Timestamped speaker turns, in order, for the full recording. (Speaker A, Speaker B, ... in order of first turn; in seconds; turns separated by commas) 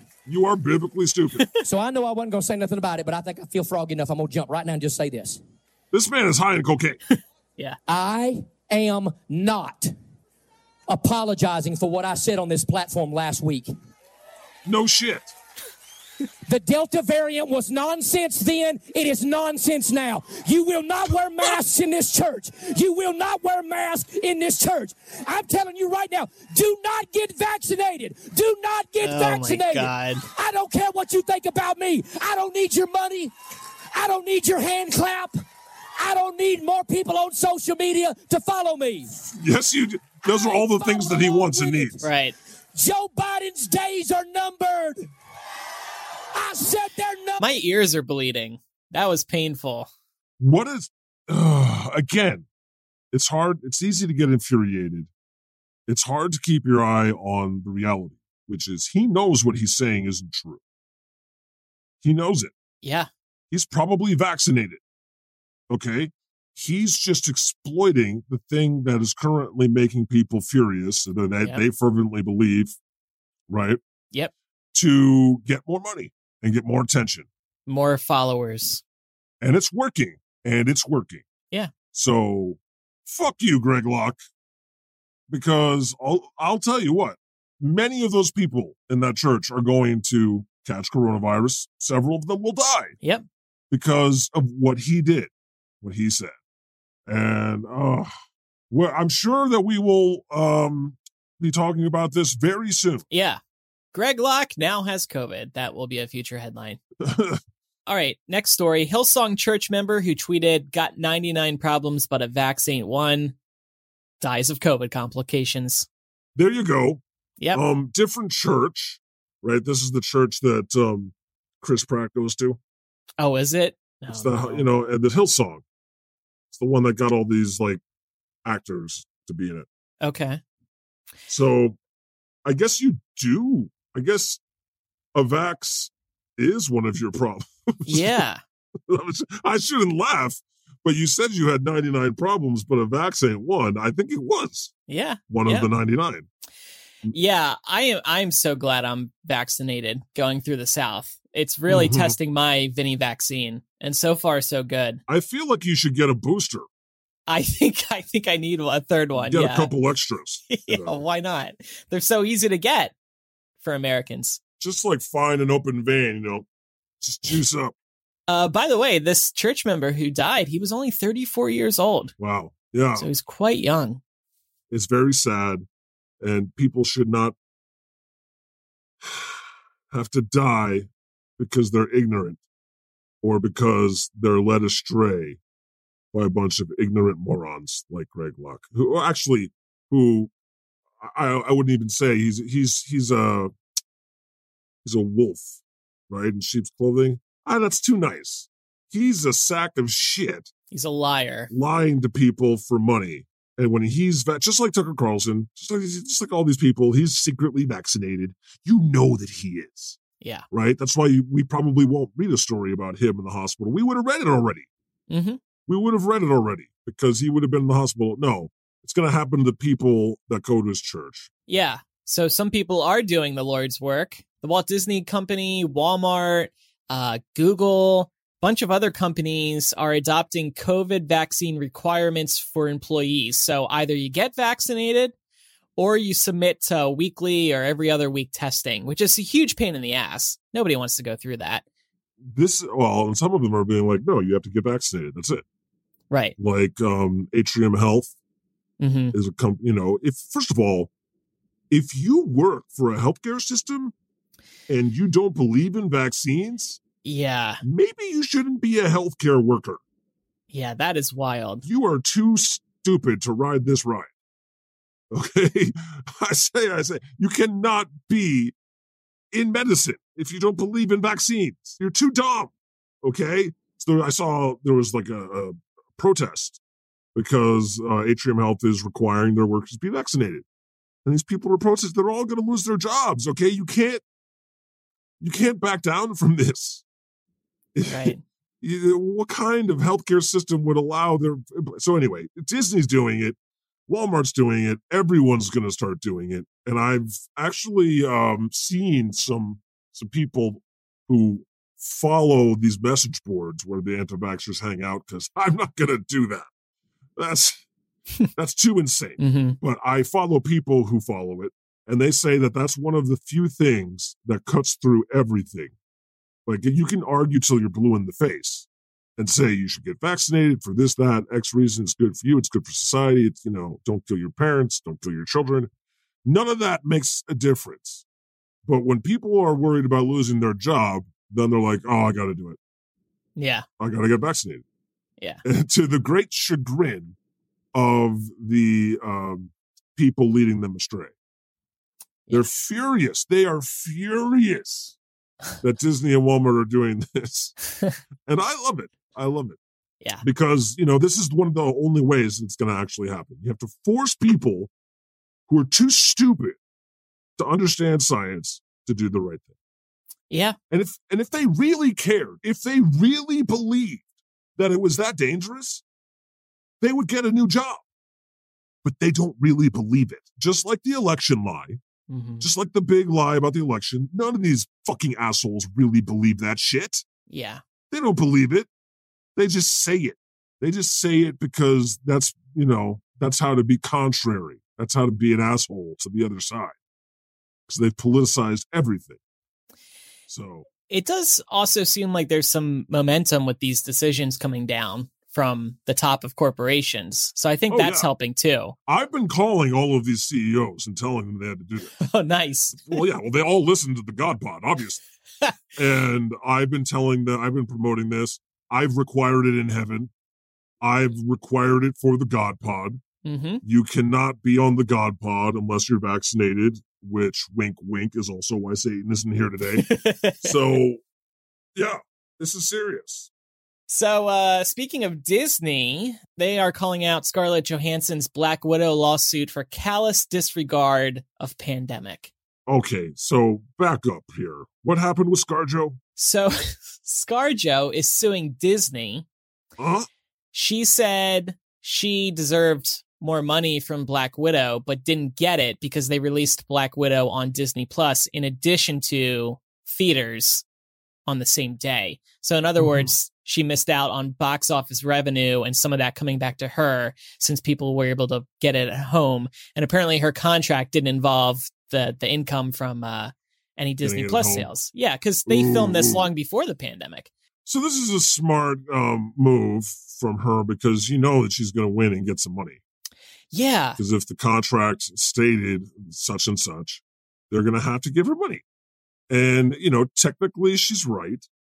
Speaker A: 0.2-1.4, Speaker B: 1.6-5.4, Speaker A: 5.9-7.0, Speaker B: 7.9-9.9, Speaker B: 10.9-13.7, Speaker A: 14.6-15.3, Speaker B: 16.5-33.3, Speaker C: 29.0-30.2, Speaker B: 33.9-35.4, Speaker B: 36.0-39.1, Speaker A: 39.3-42.0, Speaker B: 40.3-42.1, Speaker C: 42.0-42.3, Speaker B: 42.7-45.1, Speaker B: 46.3-47.5, Speaker C: 47.4-49.9, Speaker A: 50.4-52.5, Speaker A: 53.1-55.1, Speaker A: 55.9-60.6, Speaker A: 62.0-62.5, Speaker C: 62.8-63.1, Speaker A: 63.5-64.8, Speaker A: 65.7-72.8, Speaker A: 73.5-73.8, Speaker A: 74.7-77.3, Speaker C: 77.7-78.8, Speaker A: 79.4-81.2, Speaker A: 81.9-84.2, Speaker A: 85.3-92.9, Speaker A: 93.7-95.3, Speaker A: 95.8-96.3, Speaker A: 97.0-98.1, Speaker A: 98.7-103.0, Speaker C: 103.1-103.4, Speaker C: 103.9-106.8, Speaker A: 107.0-107.4, Speaker C: 107.9-113.3, Speaker C: 114.2-115.9, Speaker A: 116.3-117.0, Speaker A: 117.5-122.6, Speaker C: 123.2-124.7, Speaker A: 124.1-125.6, Speaker A: 126.5-127.8, Speaker A: 128.4-129.7, Speaker C: 130.0-130.4, Speaker A: 131.3-131.8, Speaker A: 132.4-134.4, Speaker A: 135.1-138.2, Speaker C: 137.8-138.4, Speaker A: 138.9-144.7, Speaker C: 144.9-145.7, Speaker A: 145.3-146.3, Speaker C: 147.1-155.0, Speaker A: 151.7-152.2, Speaker A: 155.1-156.7, Speaker C: 157.3-159.7, Speaker A: 159.2-161.0, Speaker C: 160.5-162.9, Speaker C: 163.6-164.4, Speaker A: 164.6-166.5, Speaker A: 167.0-167.7, Speaker C: 168.3-172.1, Speaker A: 172.2-173.1, Speaker C: 173.0-174.0, Speaker A: 174.7-175.7, Speaker A: 176.2-177.3, Speaker A: 179.0-182.4, Speaker A: 183.2-185.4, Speaker A: 186.1-190.3, Speaker A: 191.0-193.5, Speaker A: 194.8-200.5, Speaker C: 200.7-201.5, Speaker A: 201.5-210.0, Speaker A: 210.5-214.7, Speaker C: 215.1-215.4, Speaker A: 215.7-221.3, Speaker C: 221.5-235.1, Speaker C: 235.8-241.6, Speaker A: 242.2-245.4, Speaker C: 246.1-246.3, Speaker A: 246.4-248.1, Speaker C: 248.8-249.2, Speaker A: 249.1-250.9, Speaker A: 251.7-253.9, Speaker A: 254.7-256.8, Speaker C: 257.0-257.6, Speaker A: 257.6-259.8, Speaker C: 260.5-261.6, Speaker A: 261.6-264.1, Speaker A: 265.1-268.5, Speaker A: 269.3-272.5, Speaker A: 273.0-276.6, Speaker A: 277.1-280.4, Speaker A: 281.0-284.0, Speaker A: 285.2-286.8, Speaker A: 287.7-293.4, Speaker C: 287.9-288.2, Speaker A: 293.9-306.5, Speaker A: 307.2-307.6, Speaker A: 308.3-315.7, Speaker C: 309.2-309.6, Speaker A: 316.4-325.7, Speaker A: 326.2-328.0, Speaker A: 328.6-332.6, Speaker C: 333.4-333.6, Speaker A: 333.8-334.6, Speaker A: 335.4-337.1, Speaker A: 337.7-341.1, Speaker A: 342.3-344.9, Speaker A: 345.6-347.6, Speaker A: 348.2-349.6, Speaker A: 350.2-354.7, Speaker A: 355.5-356.6, Speaker A: 357.4-359.5, Speaker C: 360.3-360.6, Speaker A: 360.7-364.0, Speaker A: 364.6-365.8, Speaker A: 366.8-367.8, Speaker A: 368.8-371.8, Speaker C: 372.1-372.5, Speaker A: 372.4-377.1, Speaker C: 377.3-377.6, Speaker A: 377.9-378.7, Speaker A: 379.4-386.7, Speaker A: 387.7-389.2, Speaker A: 390.3-390.7, Speaker C: 390.9-398.7, Speaker A: 397.7-398.1, Speaker A: 398.9-401.9, Speaker C: 402.0-403.0, Speaker A: 402.8-405.0, Speaker A: 405.7-410.1, Speaker A: 410.8-413.0, Speaker C: 413.2-413.6, Speaker A: 413.6-419.9, Speaker C: 419.7-420.6, Speaker A: 420.4-421.0, Speaker A: 421.7-423.3, Speaker C: 423.9-432.3, Speaker A: 432.7-436.0, Speaker C: 436.2-439.2, Speaker A: 439.8-440.1, Speaker C: 440.5-450.6, Speaker C: 451.2-467.3, Speaker A: 452.8-453.1, Speaker A: 464.0-464.7, Speaker A: 465.5-466.3, Speaker A: 467.6-472.8, Speaker C: 473.5-474.0, Speaker A: 474.0-478.6, Speaker A: 479.3-481.5